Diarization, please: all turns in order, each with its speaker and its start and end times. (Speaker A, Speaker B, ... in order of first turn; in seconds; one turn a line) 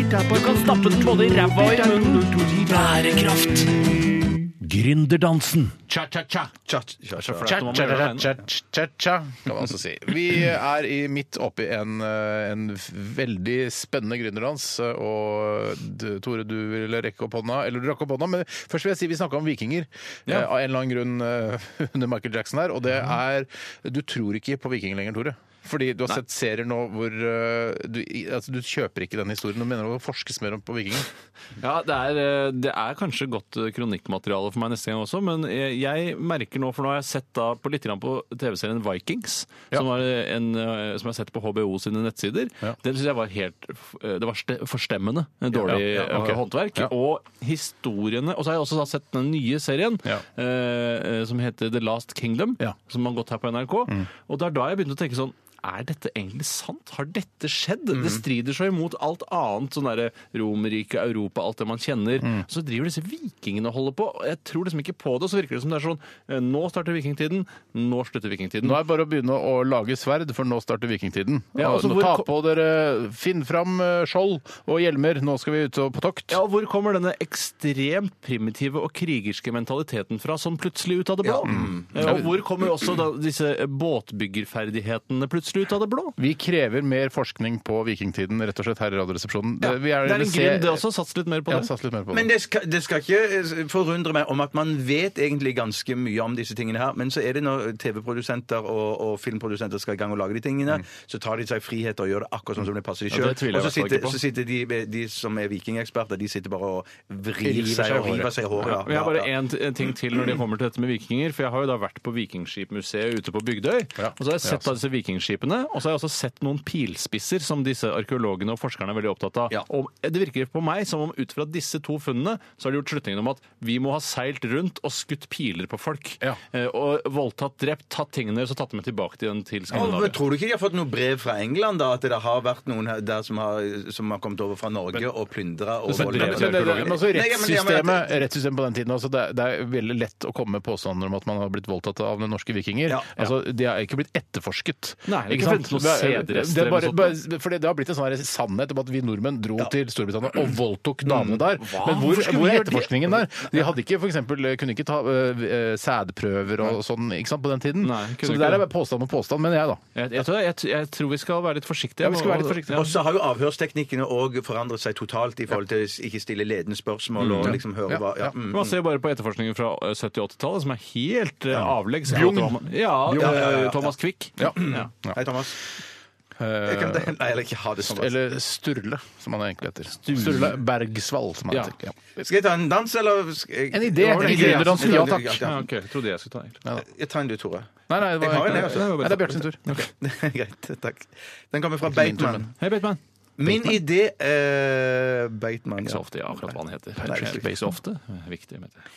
Speaker A: 0.2-3.9
Speaker B: 0.3-3.0
Speaker A: 4.6-5.8
Speaker B: 5.9-6.5
Speaker C: 6.7-7.7
Speaker D: 7.2-8.4
Speaker B: 7.4-31.1
Speaker D: 31.6-68.8
Speaker B: 45.5-46.9
Speaker C: 57.9-58.2
Speaker B: 68.6-76.4
Speaker D: 71.6-72.3
Speaker D: 76.3-86.2
Speaker C: 81.2-82.2
Speaker B: 81.5-82.3
Speaker B: 86.2-90.8
Speaker D: 89.6-91.7
Speaker B: 91.5-92.3
Speaker C: 92.1-109.3
Speaker D: 103.1-104.2
Speaker B: 107.4-108.3
Speaker D: 108.6-130.2
Speaker B: 114.0-114.6
Speaker C: 129.7-138.2
Speaker D: 135.9-137.0
Speaker B: 135.9-159.8
Speaker C: 142.9-143.3
Speaker D: 145.1-147.2
Speaker C: 151.1-151.5
Speaker D: 151.6-153.2
Speaker D: 157.8-158.7
Speaker D: 159.9-162.9
Speaker B: 162.0-162.9
Speaker C: 162.7-168.8
Speaker D: 167.2-167.6
Speaker B: 167.4-168.3
Speaker D: 168.5-174.9
Speaker B: 172.1-173.5
Speaker C: 173.1-175.6
Speaker B: 174.4-175.2
Speaker B: 176.4-177.2
Speaker C: 176.6-178.2
Speaker B: 177.8-182.0
Speaker D: 180.0-180.6
Speaker C: 182.2-185.6
Speaker B: 183.7-185.5
Speaker D: 184.0-186.6
Speaker C: 186.8-189.2
Speaker B: 187.9-189.9
Speaker D: 188.3-189.9
Speaker C: 189.9-192.5
Speaker B: 191.9-192.5
Speaker D: 192.6-193.0
Speaker C: 193.4-196.0
Speaker B: 193.4-193.8
Speaker D: 195.8-198.9
Speaker C: 197.0-197.4
Speaker B: 197.1-197.7